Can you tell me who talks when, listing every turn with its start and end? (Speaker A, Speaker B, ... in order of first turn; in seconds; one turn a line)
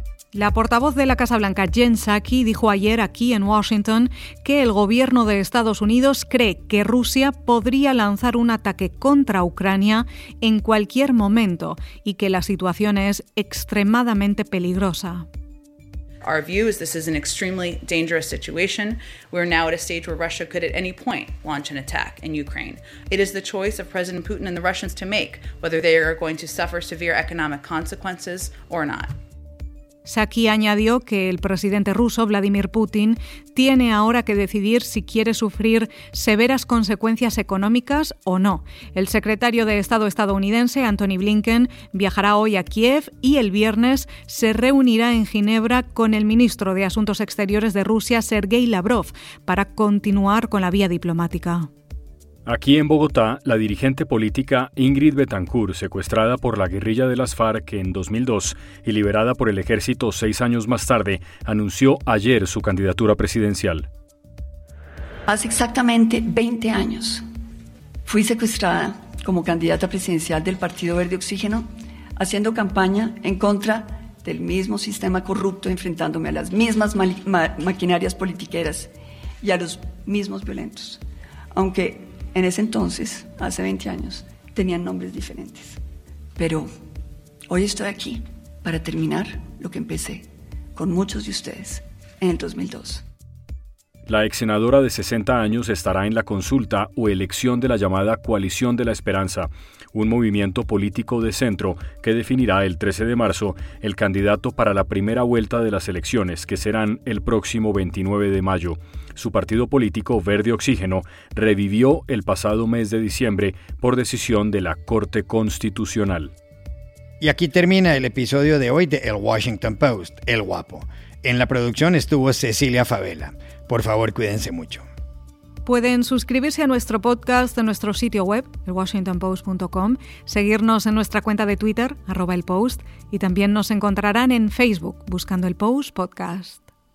Speaker A: 0.3-15.2
Speaker B: 16.2-29.1
Speaker A: 30.1-51.7
Speaker C: 52.5-63.9
Speaker D: 65.3-67.2
Speaker D: 68.0-85.8
Speaker D: 86.3-86.7
Speaker D: 87.5-93.0
Speaker C: 94.1-116.3
Speaker E: 117.2-124.8
Speaker A: 125.6-136.7